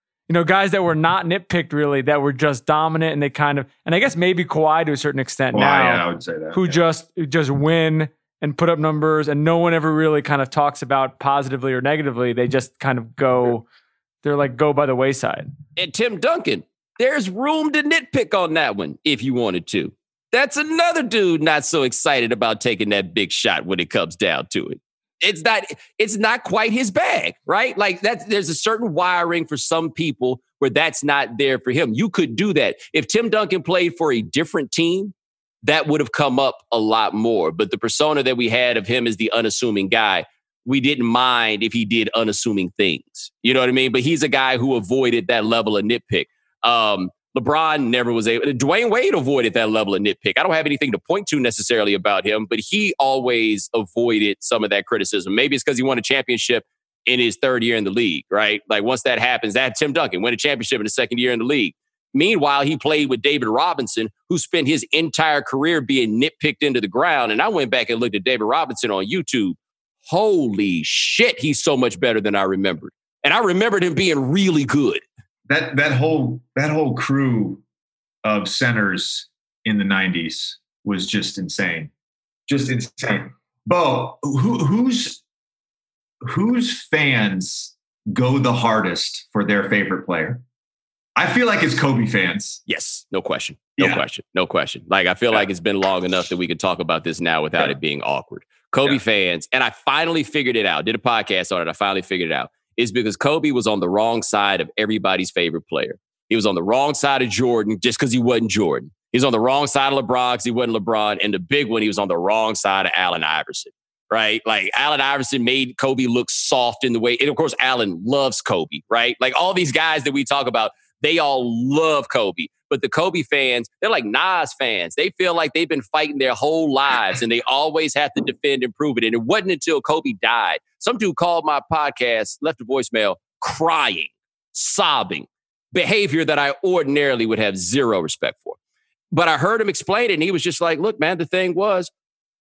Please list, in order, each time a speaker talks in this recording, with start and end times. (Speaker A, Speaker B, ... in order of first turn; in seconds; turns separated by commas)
Speaker A: 0.3-13.7, Speaker B: 5.5-6.8, Speaker A: 14.2-15.5, Speaker C: 15.8-75.0, Speaker B: 75.5-77.6, Speaker B: 78.2-81.9, Speaker B: 82.5-85.2, Speaker B: 86.2-90.4, Speaker B: 91.2-92.6, Speaker C: 92.7-138.6, Speaker B: 93.8-94.0, Speaker C: 139.1-141.9